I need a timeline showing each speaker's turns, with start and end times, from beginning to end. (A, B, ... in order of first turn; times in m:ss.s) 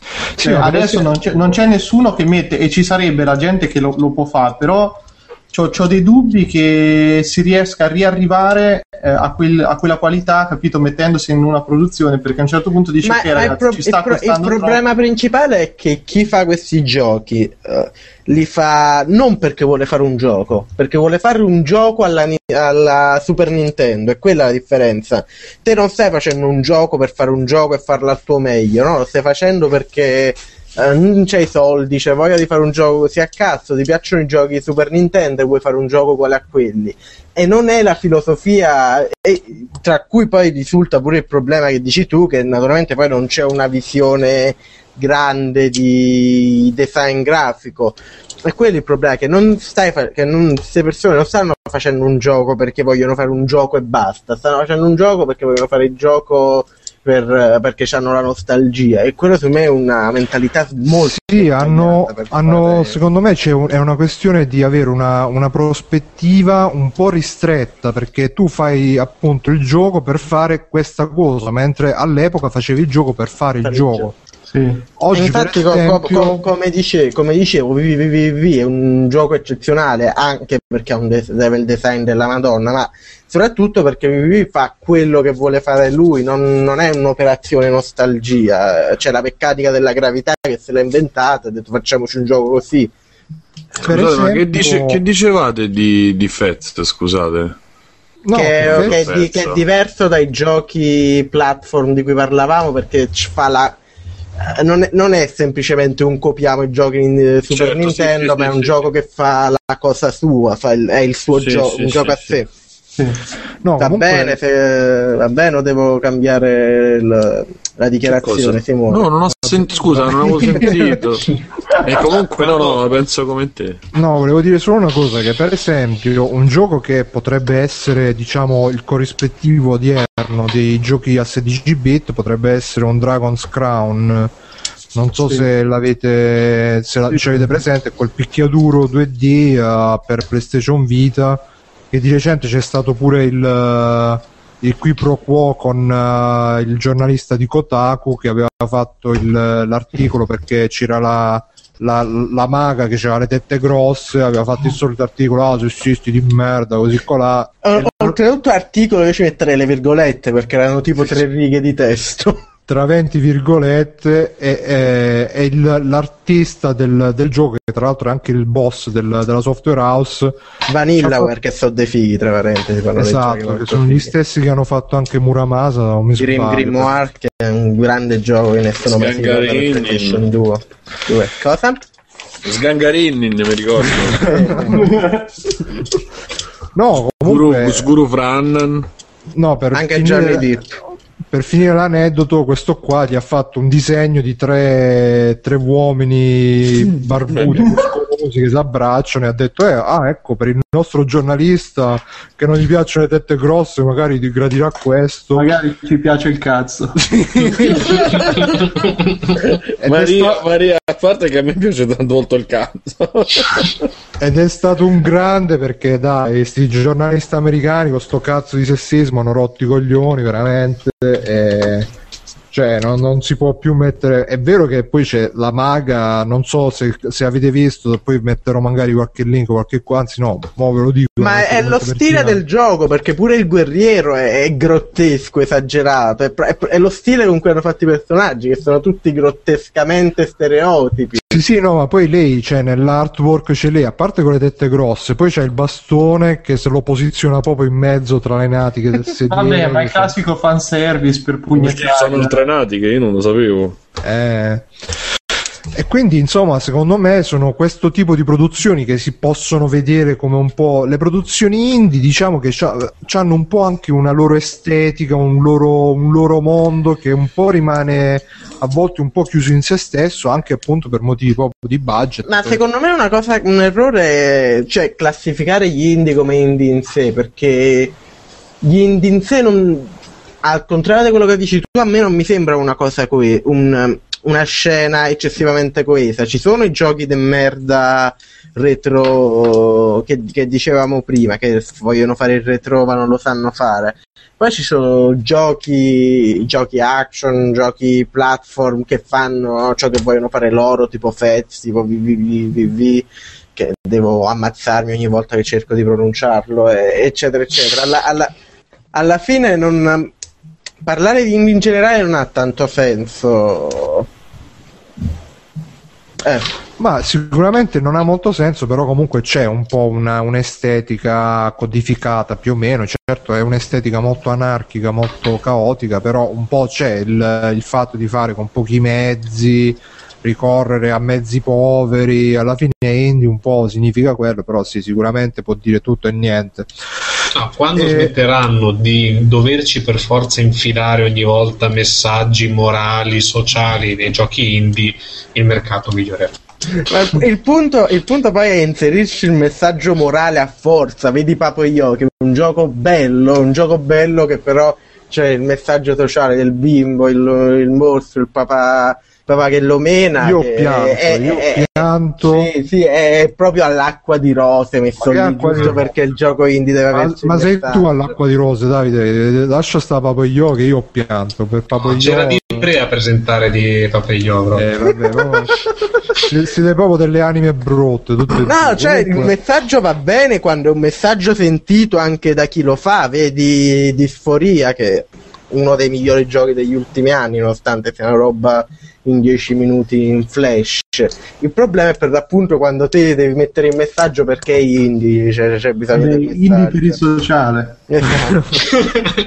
0:00.4-0:01.2 A
0:00.4-0:14.8 B
0:13.0-1:03.0 C
1:00.9-1:14.1 A
1:13.6-1:14.1 C
1:14.5-1:14.8 B
1:15.0-1:16.4 A
1:15.1-1:32.9 C
1:33.8-1:37.6 D
1:33.8-1:35.0 A
1:38.2-1:39.0 A
1:38.3-1:43.8 C
1:38.6-1:39.6 D
1:44.4-1:52.5 C
1:47.5-1:48.9 D
1:51.3-1:52.4 D
1:53.6-1:54.4 A
1:53.8-1:59.1 C
1:58.1-2:03.8 D
1:59.4-2:00.7 A
2:03.9-2:14.3 A
2:14.9-2:38.2 A
2:37.6-2:42.4 C
2:42.7-2:50.3 A
2:50.7-2:54.1 C
2:51.0-2:51.3 A
2:53.0-2:57.0 A
2:56.2-3:01.8 C
2:58.9-3:00.2 D
3:02.4-3:04.6 D
3:04.1-3:05.0 C
3:04.5-3:04.8 A
3:04.8-3:05.2 B
3:06.8-3:07.9 A
3:07.2-3:08.9 D
3:09.3-3:10.5 A
3:09.7-3:10.7 C
3:11.3-3:25.5 A
3:25.4-3:28.5 B
3:27.0-3:28.2 A
3:28.1-3:33.8 D
3:29.8-3:30.4 A
3:34.2-3:41.9 A
3:42.5-3:52.4 A
3:51.2-4:01.4 C
4:01.3-4:10.1 A
4:09.3-4:12.5 B
4:11.6-4:13.8 D
4:14.0-4:14.7 A
4:15.7-4:32.6 A
4:32.2-4:38.0 C
4:38.6-5:08.3 C
5:08.9-5:10.1 C
5:10.8-5:14.1 C
5:16.8-5:36.7 A
5:37.3-5:46.4 E
5:37.7-5:38.1 A
5:46.8-6:07.9 C
6:00.2-6:02.5 A
6:05.0-6:05.9 A
6:06.9-6:12.7 A
6:11.8-6:14.8 E
6:14.5-6:15.6 A
6:16.1-6:19.3 A
6:18.4-6:37.0 C
6:35.9-6:37.8 B
6:37.9-6:38.8 C